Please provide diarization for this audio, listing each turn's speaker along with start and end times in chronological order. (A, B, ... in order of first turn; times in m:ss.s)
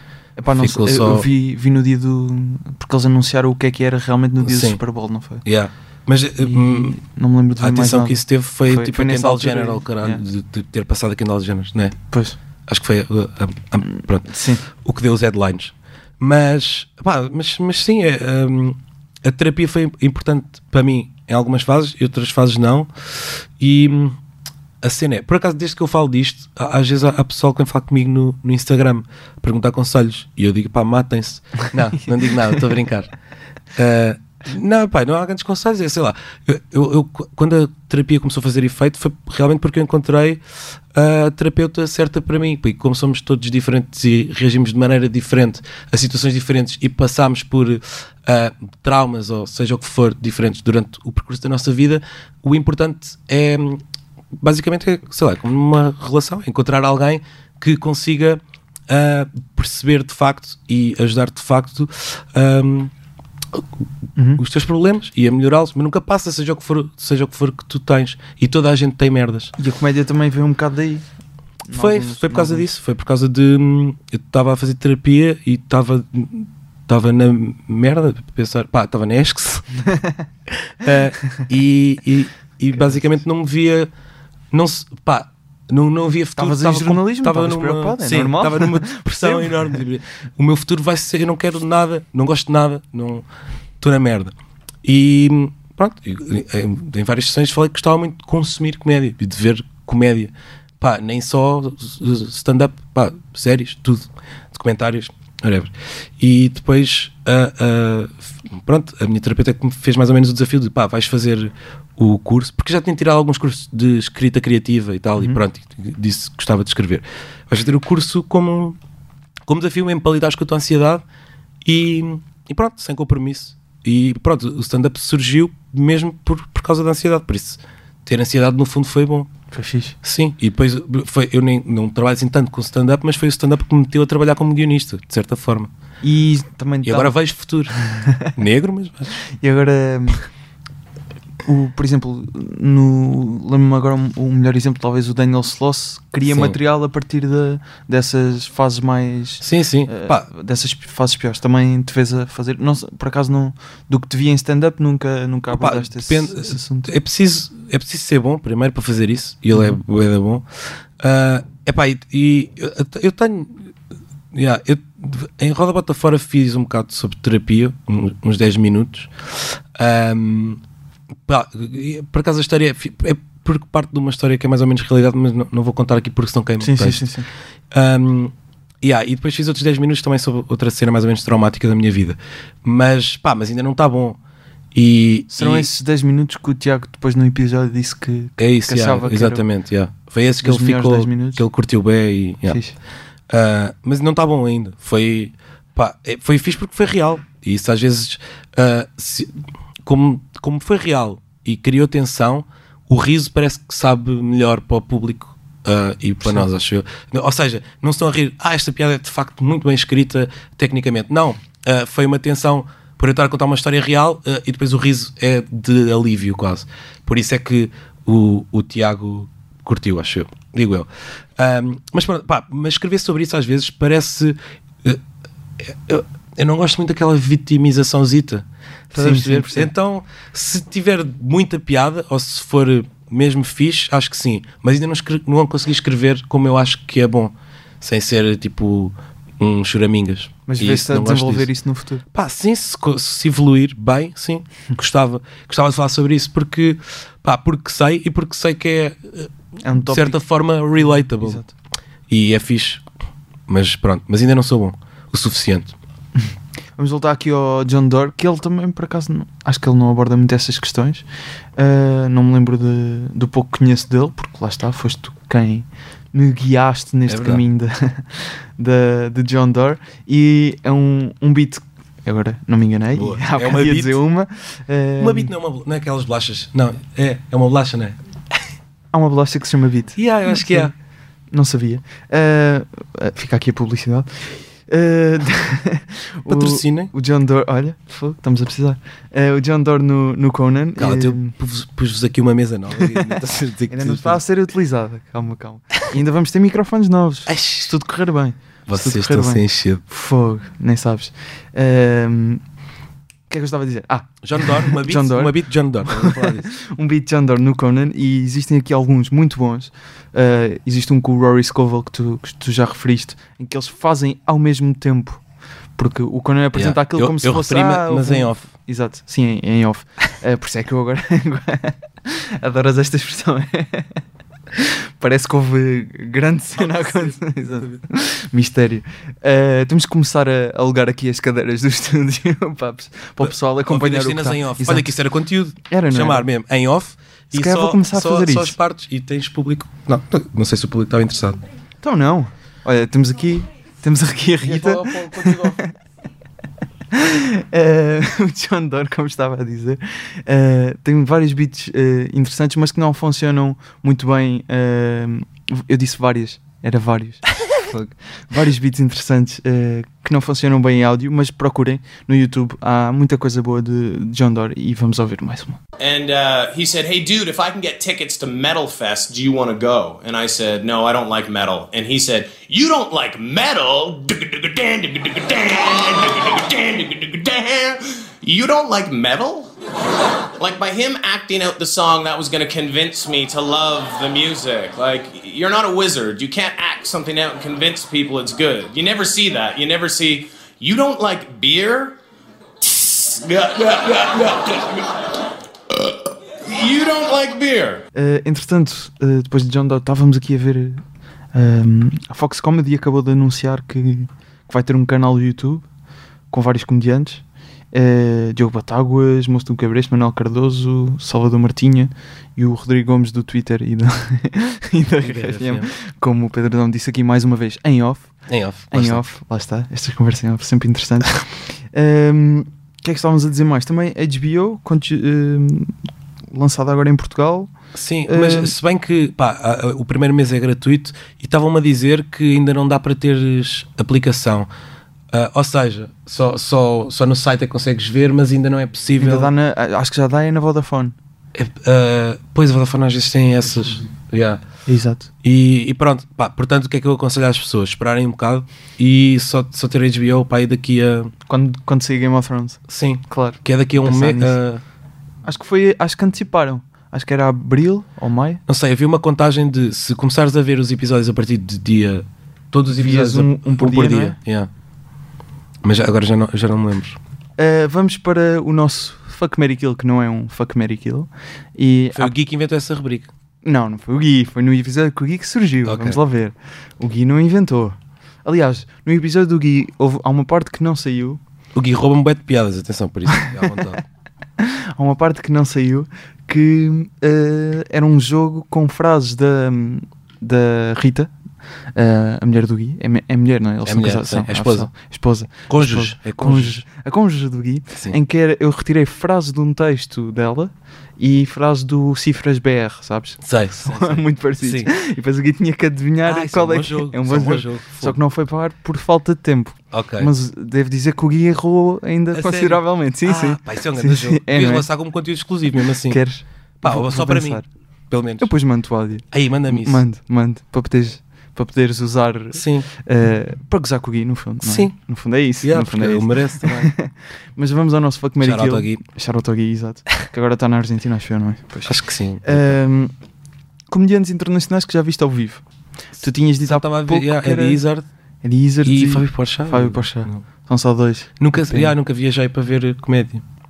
0:00.4-0:05.4 A
0:00.6-0:01.3 B
0:04.4-0:04.8 B
0:05.4-0:07.0 B
0:06.4-0:10.2 A
0:07.6-0:12.0 B
0:12.1-0:12.4 A
0:12.7-0:24.2 B
0:14.2-0:14.6 A
0:24.8-0:33.1 B
0:33.8-0:40.4 B
0:40.9-0:53.8 B
0:54.4-1:02.9 B
1:04.2-1:04.4 A
1:04.4-1:09.5 B
1:09.6-1:11.1 A
1:11.7-1:12.7 A
1:11.7-1:19.8 B
1:20.5-1:23.9 B
1:24.5-1:33.2 B
1:26.4-1:29.7 A
1:33.8-1:58.8 B
1:59.5-2:01.0 B
2:01.6-2:09.3 B
2:09.5-2:10.0 A
2:10.0-2:15.7 B
2:16.0-2:17.2 A
2:16.8-2:17.7 B
2:17.8-2:18.3 A
2:18.4-2:19.2 B
2:19.4-2:20.2 A
2:21.5-2:36.9 A
2:26.3-2:26.6 B
2:29.4-2:30.3 B
2:35.5-2:40.5 B
2:41.0-2:43.7 B
2:44.3-2:50.6 B
2:51.3-2:57.1 B
2:56.6-2:57.3 A
2:57.7-3:04.2 B
3:04.7-3:05.7 B
3:05.3-3:09.4 A
3:08.4-3:12.6 B
3:10.4-3:11.4 A
3:12.5-3:12.8 A
3:13.3-3:45.0 B
3:45.6-4:01.5 B
3:48.9-3:49.7 A
4:00.5-4:02.0 A
4:02.1-4:09.3 B
4:09.6-4:10.2 A
4:09.9-4:11.4 B
4:10.9-4:11.5 A
4:12.1-4:12.8 B
4:13.5-4:15.8 B
4:16.8-4:21.0 A
4:21.6-4:35.3 A
4:27.1-4:27.4 B
4:32.9-4:34.0 B
4:35.0-4:38.0 B
4:38.9-4:40.7 A
4:40.0-4:40.7 B
4:41.3-4:51.3 A
4:46.3-4:46.9 B
4:50.8-4:54.2 B
4:52.8-4:53.2 A
4:53.7-5:02.4 A
4:57.3-4:57.7 B
4:58.7-4:59.8 B
5:03.3-5:15.2 A
5:04.2-5:06.5 B
5:15.8-5:24.0 A
5:16.5-5:18.5 B
5:24.6-5:35.0 A
5:26.6-5:27.8 B
5:33.2-5:41.4 B
5:35.7-5:36.3 A
5:37.3-5:38.6 A
5:41.8-5:45.7 A
5:44.4-5:45.6 B
5:46.9-6:05.6 A
6:05.8-6:19.5 C
6:20.4-6:32.0 C
6:32.6-6:35.2 C
6:35.7-6:37.8 C
6:38.0-6:45.6 A
6:46.3-6:58.1 A
6:55.0-6:55.7 B
6:58.3-6:59.0 B
6:58.7-7:05.8 A
7:06.3-7:07.5 A
7:07.7-7:14.5 B
7:08.1-7:08.5 A
7:15.1-7:19.3 B
7:19.0-7:21.0 A
7:21.3-7:24.4 B
7:24.7-7:25.1 A
7:25.2-7:31.1 B
7:31.3-7:34.4 A
7:32.7-7:34.6 B
7:35.2-7:38.4 A
7:38.5-7:44.5 B
7:42.7-7:44.2 A
7:45.6-7:47.0 B
7:47.4-7:52.1 A
7:52.0-7:53.1 B
7:53.4-8:01.2 A
7:55.6-7:56.0 B
8:01.6-8:03.8 B
8:04.4-8:11.1 A
8:11.8-8:34.7 A
8:13.7-8:14.7 B
8:15.5-8:16.6 B
8:23.2-8:24.7 B
8:26.0-8:28.0 B
8:29.7-8:30.1 B
8:32.1-8:36.0 B
8:35.9-8:37.5 A
8:36.6-8:38.3 B
8:38.2-8:52.9 A
8:39.1-8:39.8 B
8:42.3-8:42.7 B
8:44.4-8:44.8 B
8:45.4-8:46.7 B
8:48.2-8:48.8 B
8:51.6-8:52.6 B
8:53.7-8:55.4 A
8:56.0-8:57.6 A
8:56.0-8:57.9 B
8:58.2-9:01.7 A
8:58.6-9:00.2 B
9:01.2-9:03.2 B